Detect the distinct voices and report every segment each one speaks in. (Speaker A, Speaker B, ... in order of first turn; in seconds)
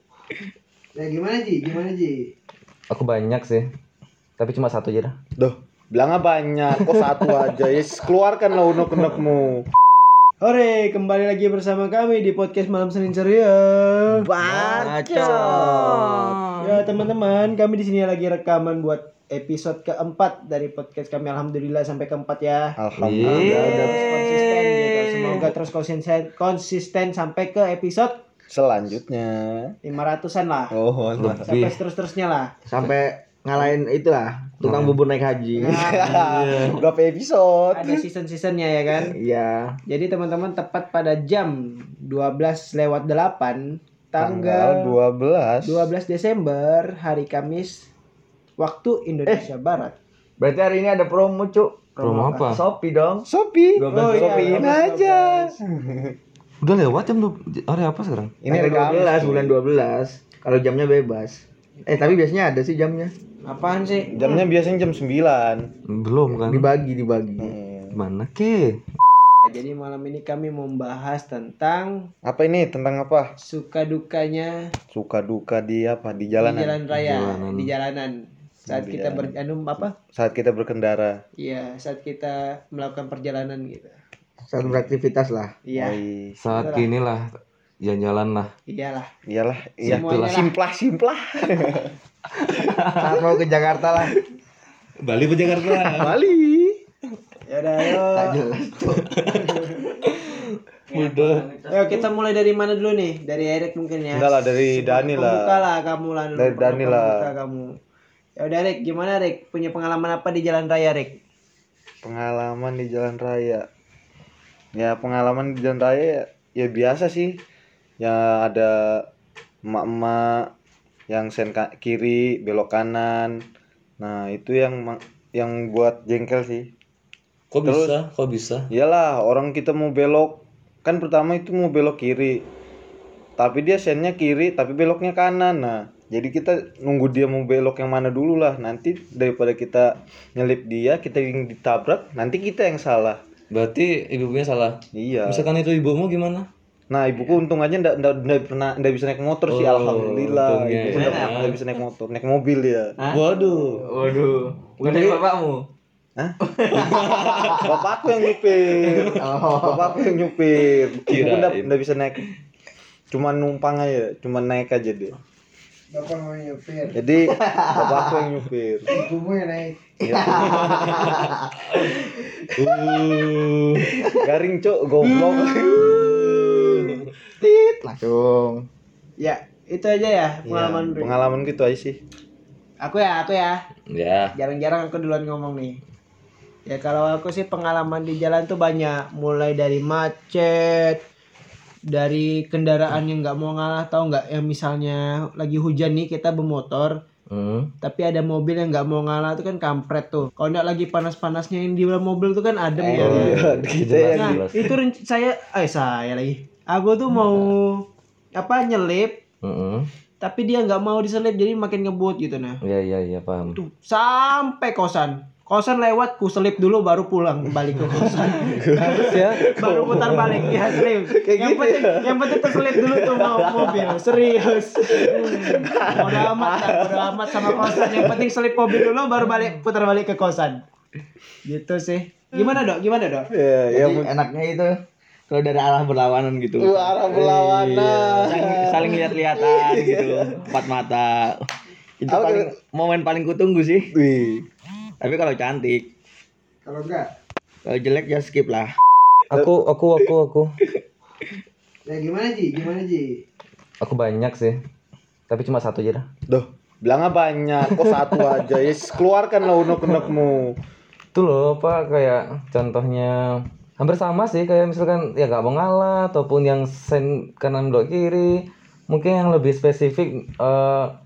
Speaker A: 0.9-2.3, 10.4-15.2, 16.6-22.8, 23.6-28.2, 29.8-30.7, 31.4-32.5, 35.5-36.5, 37.7-39.1, 39.9-45.0, 45.6-47.9, 48.6-50.0, 52.0-52.3, 53.9-55.5, 63.5-64.4, 69.4-72.1, 73.4-74.7, 76.4-80.0, 81.4-84.0, 85.7-86.0, 86.5-86.9, 88.7-89.1, 89.9-90.5, 97.5-98.4, 99.5-99.8, 101.7-107.7, 108.4-111.2, 165.9-166.8, 169.0-169.4, 175.2-177.0, 179.2-181.2, 182.8-183.5, 184.3-185.8, 186.7-191.0, 191.9-197.0, 197.8-203.3, 204.1-209.2, 210.2-212.6, 213.6-230.6, 231.4-233.3, 246.7-247.0, 251.9-253.2
Speaker B: 2.9-3.6, 4.4-5.2, 15.2-16.6, 23.0-23.9, 31.2-31.8, 34.6-35.0, 36.3-36.8, 52.0-52.6, 56.6-58.3, 65.9-66.7, 68.0-68.8, 76.9-77.7, 86.4-87.3, 87.8-88.5, 89.8-90.5, 95.0-96.1, 99.1-99.4, 100.0-102.0, 127.5-128.7, 143.5-146.5, 149.5-151.6, 153.1-153.9, 154.8-155.2, 156.9-157.5, 161.1-161.7, 171.7-172.0, 172.6-173.8, 183.9-184.3, 197.3-197.7, 203.0-204.7, 209.4-209.9, 212.6-213.6, 218.8-219.5, 249.3-250.6, 253.8-254.6, 255.3-256.1, 261.1-263.2, 263.8-270.9
Speaker C: 5.4-9.7, 14.1-16.3, 22.8-24.0, 28.5-29.8, 30.7-31.4, 35.8-38.0, 44.2-45.9, 53.3-56.1, 58.4-59.5, 64.1-65.7, 67.4-68.0, 72.2-73.3, 74.9-76.8, 78.7-79.3, 80.1-81.2, 85.7-86.4, 89.3-91.9, 96.0-96.8, 104.1-105.7, 106.3-107.3, 112.0-113.7, 114.8-117.4, 118.0-119.0, 119.7-120.5, 121.1-123.4, 124.0-126.7, 127.7-128.0, 128.7-132.5, 133.4-143.2, 144.9-145.5, 146.9-152.9, 157.5-162.2, 163.1-165.2, 166.9-168.9, 170.0-171.2, 174.2-176.2, 180.4-182.0, 203.0-204.4, 220.0-220.3, 221.3-222.1, 225.1-228.2, 233.3-234.1, 236.6-240.4, 242.1-242.5, 243.9-244.5, 256.3-260.6
Speaker D: 14.4-16.1, 23.2-25.5, 32.7-36.2, 38.9-39.8, 50.4-53.2, 53.8-54.7, 58.5-63.1, 66.3-67.5, 84.4-85.5, 92.5-94.1, 95.5-96.1, 98.1-99.7, 100.9-101.8, 150.9-151.5, 153.0-153.2, 153.8-155.7, 156.4-157.7, 159.0-160.2, 167.3-168.2, 169.0-171.8, 173.8-174.2, 175.9-178.7, 202.8-203.4, 218.2-220.8, 233.7-234.7, 235.3-241.5, 242.0-243.9, 245.0-245.9, 247.7-248.7